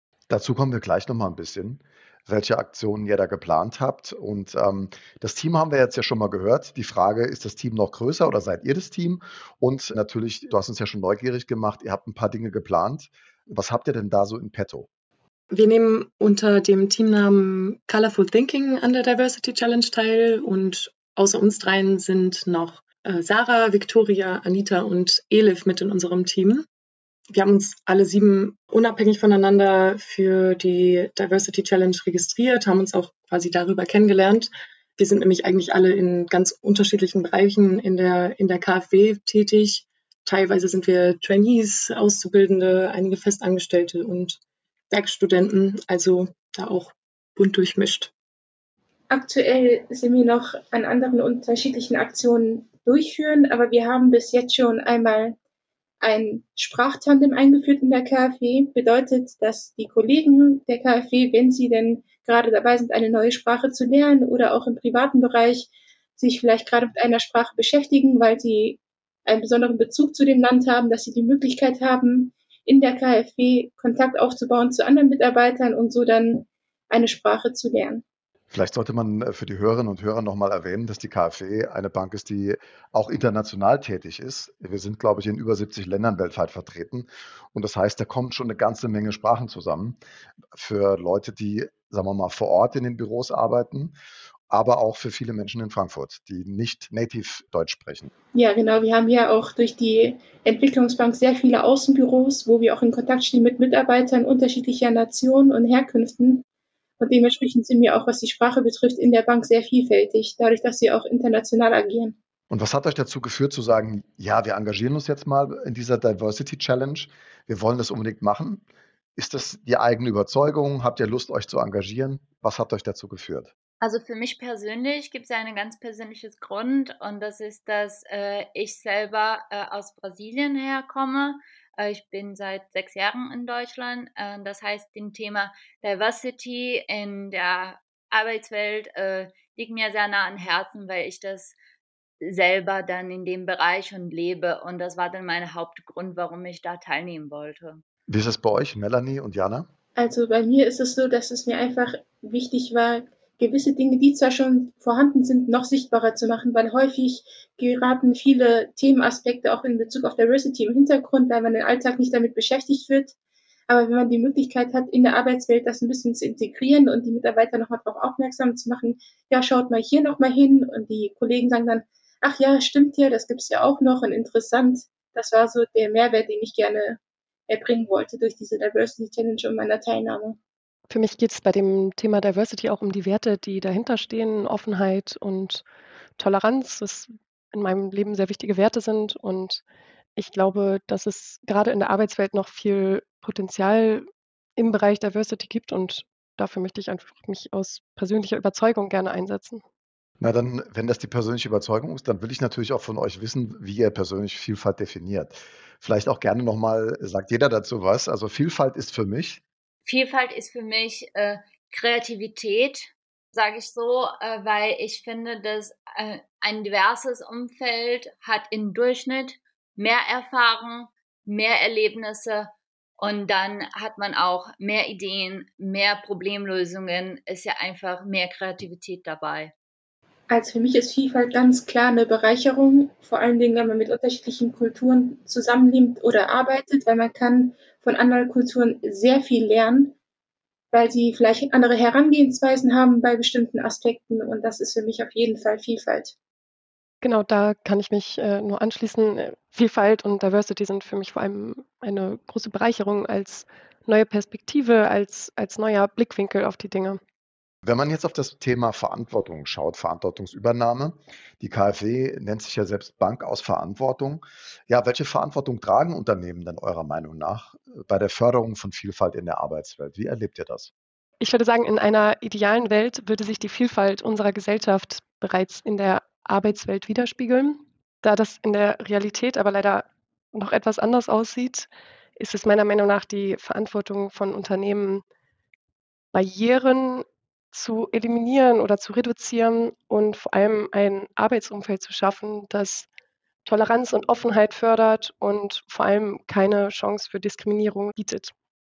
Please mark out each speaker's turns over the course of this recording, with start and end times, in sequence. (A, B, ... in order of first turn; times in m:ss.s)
0:00.3-0:14.9 A
0:15.5-0:26.6 B
0:27.3-0:44.4 B
0:44.9-0:48.1 B
0:49.1-0:55.4 C
0:56.0-1:18.0 C
1:18.5-1:30.0 A
1:30.5-1:33.9 A
1:34.5-1:38.1 A
1:38.3-1:46.4 C
1:47.0-1:52.2 C
1:52.5-1:58.6 A
1:59.2-2:03.5 A
2:03.8-2:21.6 D
2:22.2-2:27.8 D
2:28.1-2:29.7 A
2:30.0-2:43.1 C
2:43.7-3:00.4 C
3:00.9-3:05.6 E
3:06.2-3:09.6 E
3:10.2-3:14.0 E
3:14.6-3:19.6 E
3:20.2-3:29.4 A
3:29.8-3:49.5 D
3:50.3-3:59.9 C
4:00.7-4:06.1 C
4:07.0-4:17.0 E
4:17.6-4:30.7 A
4:31.2-4:45.0 E
4:46.1-4:52.9 E
4:53.4-4:58.3 E